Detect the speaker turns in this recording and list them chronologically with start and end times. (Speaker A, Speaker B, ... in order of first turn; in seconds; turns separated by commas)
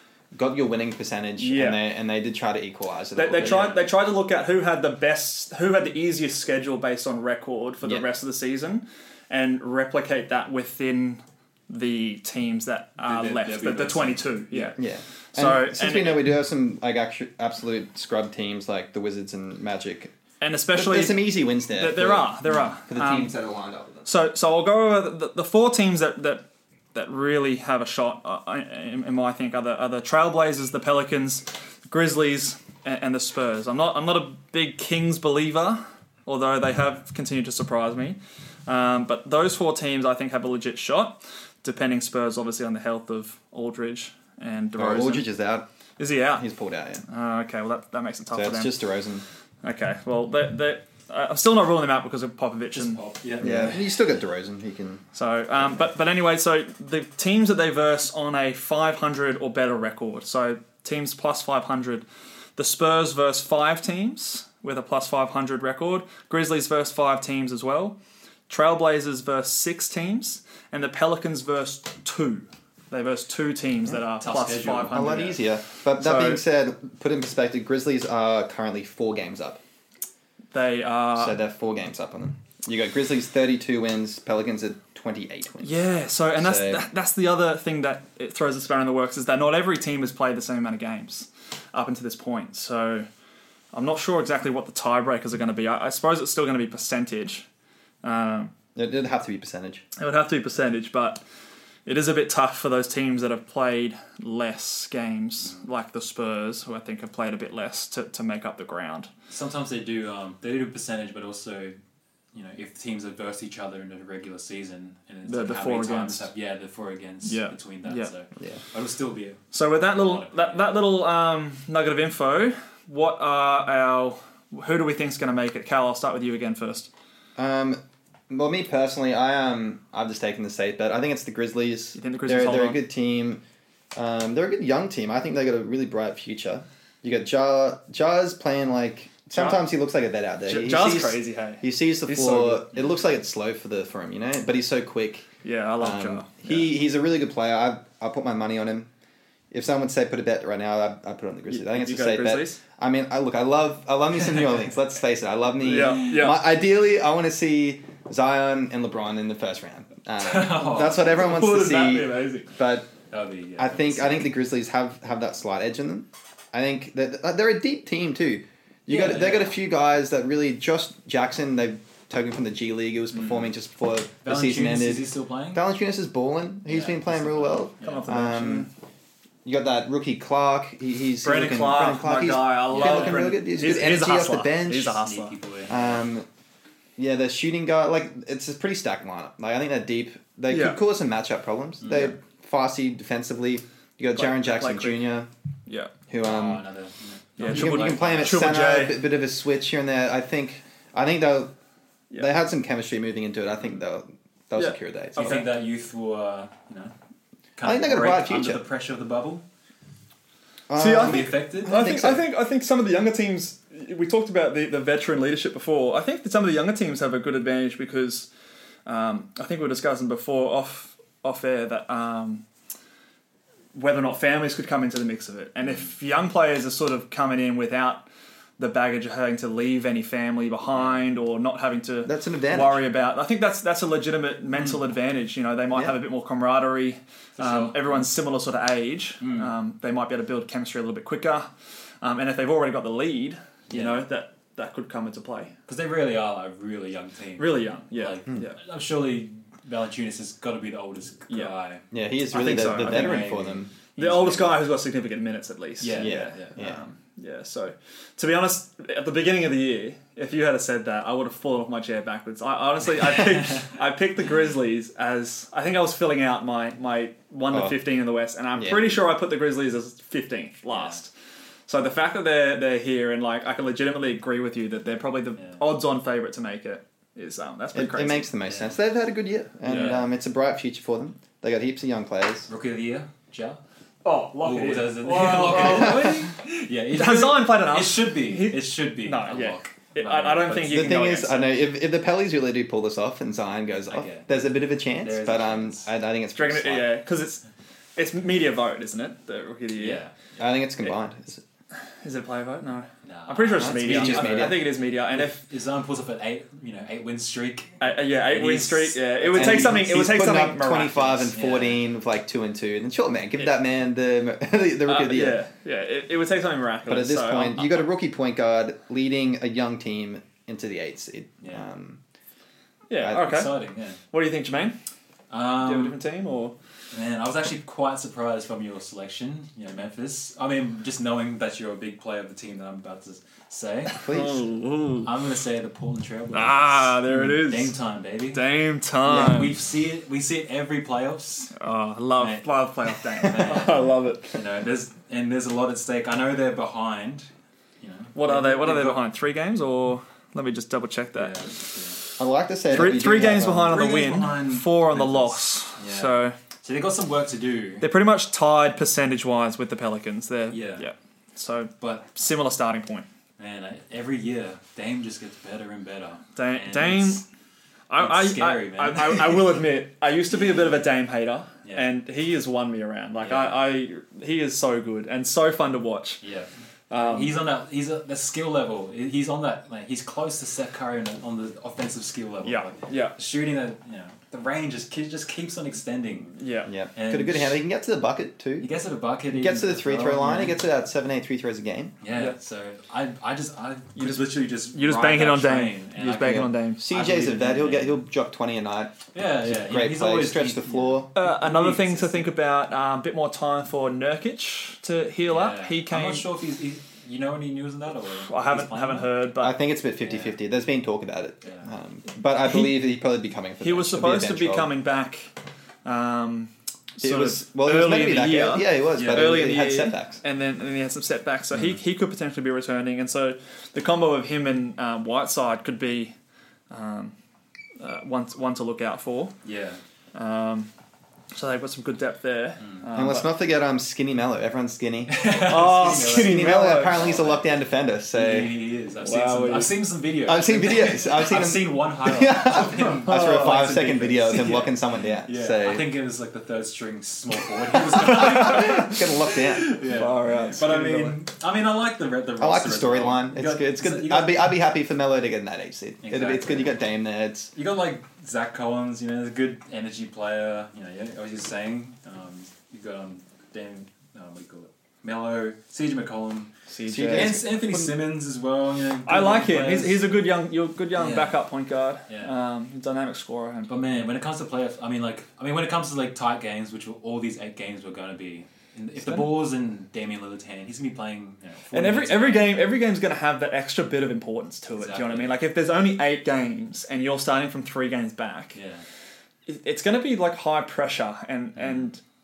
Speaker A: 0.3-3.8, Speaker B: 1.4-1.8, Speaker B: 3.1-14.8, Speaker C: 3.4-3.8, Speaker C: 13.0-14.7, Speaker A: 14.8-20.1, Speaker B: 15.3-16.2, Speaker B: 20.4-23.3, Speaker A: 20.7-24.1, Speaker B: 24.1-45.3, Speaker A: 44.8-45.7, Speaker B: 46.0-46.5, Speaker A: 46.4-47.0, Speaker B: 47.1-48.8, Speaker A: 48.3-49.2, Speaker B: 49.6-53.8, Speaker C: 52.7-53.8, Speaker A: 53.4-55.0, Speaker B: 55.1-62.0, Speaker B: 62.6-68.0, Speaker B: 68.5-75.4, Speaker C: 74.2-75.4, Speaker A: 74.9-79.6, Speaker B: 76.0-76.4, Speaker B: 80.5-81.4, Speaker A: 81.2-85.8, Speaker B: 85.6-93.1, Speaker A: 86.3-86.9, Speaker B: 93.7-97.4, Speaker B: 98.0-98.5, Speaker A: 98.7-99.8, Speaker B: 100.0-101.2, Speaker B: 101.8-109.1, Speaker C: 109.3-111.8, Speaker C: 112.3-120.8, Speaker B: 115.3-116.2, Speaker B: 117.2-118.1, Speaker B: 119.5-126.9, Speaker A: 127.4-133.4, Speaker B: 131.9-132.8, Speaker A: 133.9-145.3, Speaker B: 139.3-139.6, Speaker B: 140.4-142.6, Speaker B: 145.4-146.7, Speaker A: 145.8-148.9, Speaker A: 149.5-162.9, Speaker B: 151.5-152.6, Speaker B: 155.6-156.4, Speaker C: 160.2-161.2, Speaker B: 161.0-162.5, Speaker C: 163.1-164.2, Speaker A: 163.6-178.7, Speaker C: 168.9-169.6, Speaker C: 173.1-173.5, Speaker C: 174.2-175.6, Speaker C: 176.7-178.1, Speaker B: 177.8-178.7, Speaker A: 179.4-185.0, Speaker B: 181.2-185.3, Speaker C: 182.7-183.3, Speaker C: 185.0-186.0, Speaker A: 185.7-186.2, Speaker A: 187.0-195.3, Speaker B: 190.5-190.8, Speaker C: 191.8-192.2, Speaker B: 194.1-195.1, Speaker B: 195.7-195.9, Speaker A: 196.1-196.6, Speaker C: 196.2-198.5, Speaker B: 197.4-199.0, Speaker A: 197.4-201.5, Speaker A: 202.2-205.4, Speaker B: 204.6-205.5, Speaker C: 205.2-206.9, Speaker C: 207.6-209.4, Speaker A: 207.6-208.6, Speaker A: 210.7-212.2, Speaker B: 210.8-218.3, Speaker C: 210.8-211.8, Speaker B: 218.8-222.4, Speaker B: 223.7-228.1, Speaker B: 228.6-241.5, Speaker A: 232.0-232.8, Speaker C: 237.3-238.1, Speaker C: 239.2-239.5, Speaker B: 242.0-245.5, Speaker C: 243.7-244.1, Speaker C: 245.7-251.8, Speaker B: 247.4-248.6, Speaker B: 251.3-251.5, Speaker A: 251.9-253.7, Speaker B: 252.3-253.3, Speaker C: 252.5-254.6, Speaker B: 253.9-271.1, Speaker C: 255.8-256.5, Speaker A: 255.9-256.8, Speaker A: 267.5-267.8, Speaker A: 268.6-269.0, Speaker C: 270.7-271.0, Speaker B: 271.7-278.3, Speaker A: 277.7-282.5, Speaker C: 278.4-278.7, Speaker B: 279.6-280.0, Speaker C: 279.7-280.0, Speaker C: 282.5-283.6, Speaker B: 284.0-286.3, Speaker C: 284.4-291.0, Speaker A: 285.6-286.1, Speaker B: 286.9-291.6, Speaker A: 290.6-296.9, Speaker C: 293.9-295.9, Speaker B: 296.3-297.4, Speaker B: 297.9-300.0, Speaker C: 299.7-300.3, Speaker A: 300.4-301.4, Speaker B: 302.0-305.4, Speaker C: 303.0-309.9, Speaker A: 303.6-304.6, Speaker B: 307.8-311.3, Speaker A: 309.3-315.4, Speaker C: 311.3-311.8, Speaker B: 314.9-317.9, Speaker A: 316.9-322.0, Speaker C: 321.4-321.7, Speaker B: 322.9-324.7, Speaker C: 323.0-324.0, Speaker C: 325.3-326.0, Speaker B: 325.6-326.5, Speaker C: 326.9-334.0, Speaker A: 333.9-334.4, Speaker B: 334.1-335.1, Speaker C: 335.0-341.6, Speaker B: 336.3-337.7, Speaker B: 338.3-339.5, Speaker A: 339.1-339.4, Speaker B: 341.6-344.4, Speaker C: 342.2-347.3, Speaker C: 347.8-349.1, Speaker B: 348.1-351.4, Speaker C: 351.1-352.0, Speaker A: 352.2-353.8, Speaker B: 352.7-356.4, Speaker C: 353.5-357.9, Speaker B: 357.8-363.1, Speaker C: 360.5-360.9, Speaker C: 361.8-362.1, Speaker C: 363.4-367.2, Speaker B: 366.4-367.2, Speaker B: 367.9-376.2, Speaker C: 368.0-369.6, Speaker C: 373.2-373.6, Speaker C: 376.2-386.4, Speaker B: 376.9-377.4, Speaker B: 382.4-383.1, Speaker B: 386.4-386.7, Speaker A: 386.6-388.7, Speaker C: 386.9-387.6, Speaker C: 388.6-390.6, Speaker A: 389.3-391.9, Speaker C: 392.0-398.0, Speaker B: 393.9-396.8, Speaker A: 396.8-401.1, Speaker C: 399.1-402.3, Speaker B: 401.1-406.3, Speaker C: 405.2-409.1, Speaker B: 408.3-409.6, Speaker A: 409.4-414.7, Speaker C: 410.0-410.3, Speaker C: 411.4-411.7, Speaker B: 413.6-415.3, Speaker B: 415.8-426.1, Speaker A: 417.0-420.2, Speaker C: 418.9-419.4, Speaker B: 426.7-427.1, Speaker B: 427.8-429.3, Speaker C: 429.4-429.8, Speaker B: 430.1-430.7, Speaker B: 431.3-433.3, Speaker A: 432.9-438.6, Speaker C: 435.1-437.6, Speaker B: 435.4-437.0, Speaker C: 438.1-454.5, Speaker B: 439.0-439.8, Speaker A: 440.2-445.9, Speaker B: 443.0-443.8, Speaker A: 447.9-449.8, Speaker B: 448.1-448.9, Speaker B: 449.9-451.2, Speaker A: 452.4-457.5, Speaker C: 456.0-456.8, Speaker C: 457.5-466.5, Speaker B: 466.7-467.5, Speaker A: 466.9-467.9, Speaker C: 467.1-470.1, Speaker B: 469.1-473.8, Speaker C: 470.9-471.4, Speaker C: 472.1-472.3, Speaker C: 473.7-482.7, Speaker B: 479.0-479.3, Speaker B: 481.7-488.6, Speaker C: 484.8-485.4, Speaker C: 488.5-488.8, Speaker B: 489.5-492.0, Speaker C: 491.6-491.8